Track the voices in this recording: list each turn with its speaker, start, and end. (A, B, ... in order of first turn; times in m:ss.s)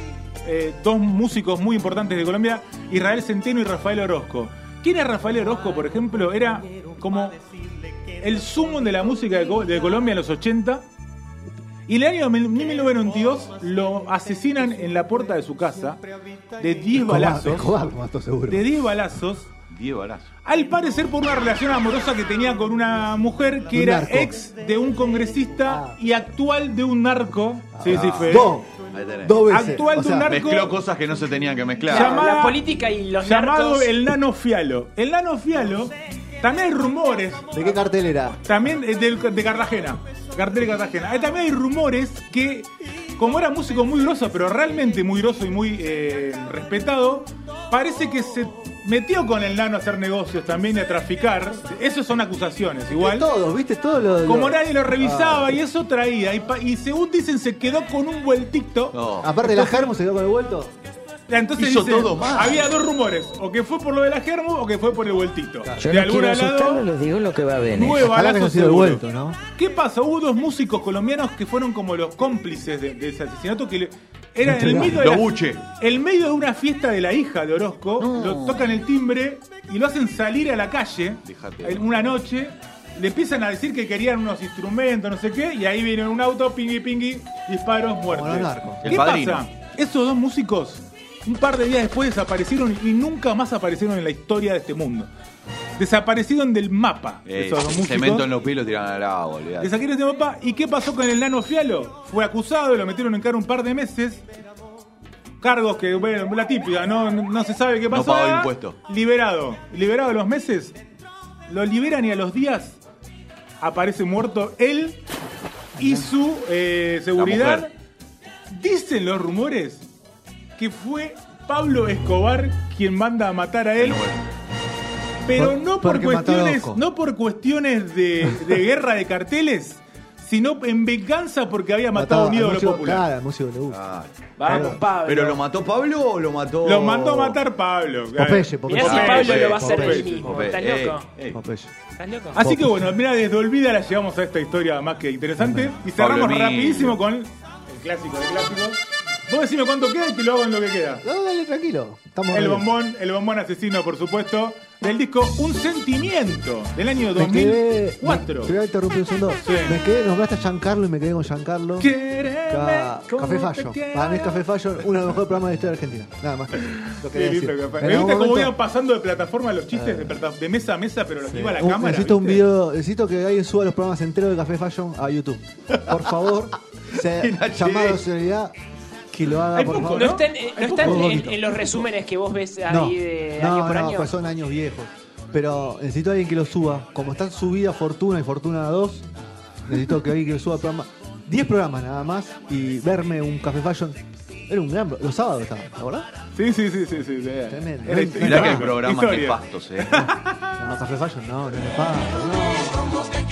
0:00.4-0:07.4 A
0:08.2-0:10.8 A
0:11.9-0:16.0 A
0:16.6-0:17.7 A
0:16.9-0:18.7 B
0:18.5-0:19.5 A
0:19.7-0:20.3 C
0:20.4-0:28.6 A
0:23.7-0:24.4 B
0:25.7-0:25.9 B
0:27.7-0:28.7 B
0:27.8-0:29.5 C
0:29.2-0:30.4 B
0:29.5-0:30.8 A
0:30.2-0:32.2 C
0:31.9-0:33.9 D
0:31.9-0:32.6 A
0:33.2-0:37.6 A
0:37.5-0:38.4 B
0:38.4-0:53.3 A
0:52.9-0:55.6 B
0:54.2-0:59.9 A
0:58.9-0:59.4 C
0:59.2-1:00.7 B
1:01.3-1:06.8 A
1:01.6-1:02.7 C
1:05.8-1:08.1 E
1:07.7-1:09.0 A
1:08.0-1:09.4 B
1:09.5-1:35.1 A
1:14.4-1:15.0 B
1:14.5-1:15.6 C
1:18.0-1:18.8 C
1:21.2-1:22.1 C
1:28.1-1:29.0 B
1:28.8-1:29.4 C
1:35.8-1:38.3 A
1:37.2-1:39.8 C
1:39.6-1:44.2 A
1:45.4-1:50.8 A
1:47.9-1:48.8 C
1:51.5-1:52.8 A
1:53.6-1:55.0 A
1:55.8-1:57.7 A
1:55.8-1:56.0 B
1:57.2-1:57.7 C
1:58.5-1:59.8 A
2:00.6-2:04.0 A
2:03.8-2:04.2 C
2:05.2-2:13.0 A
2:05.3-2:06.8 B
2:11.9-2:13.8 B
2:13.7-2:17.4 C
2:14.4-2:15.4 D
2:14.4-2:14.8 B
2:16.6-2:20.2 A
2:18.1-2:20.5 B
2:18.7-2:21.1 D
2:18.8-2:21.4 C
2:21.3-2:21.7 B
2:22.0-2:22.4 D
2:22.3-2:31.0 A
2:22.4-2:22.9 B
2:25.4-2:25.8 B
2:25.9-2:27.0 C
2:31.0-2:32.7 B
2:32.3-2:38.5 A
2:37.1-2:41.9 B
2:39.4-2:39.8 A
2:41.8-2:44.8 A
2:42.5-2:48.6 B
2:46.6-2:52.5 A
2:49.7-2:50.2 B
2:51.3-2:58.5 B
2:55.7-2:56.2 C
2:56.9-2:58.0 C
2:59.1-3:01.6 B
2:59.5-3:01.1 A
2:59.8-3:04.1 D
3:02.7-3:09.1 B
3:09.6-3:16.1 B
3:16.3-3:20.5 A
3:17.5-3:18.7 B
3:18.2-3:20.0 C
3:20.0-3:23.1 B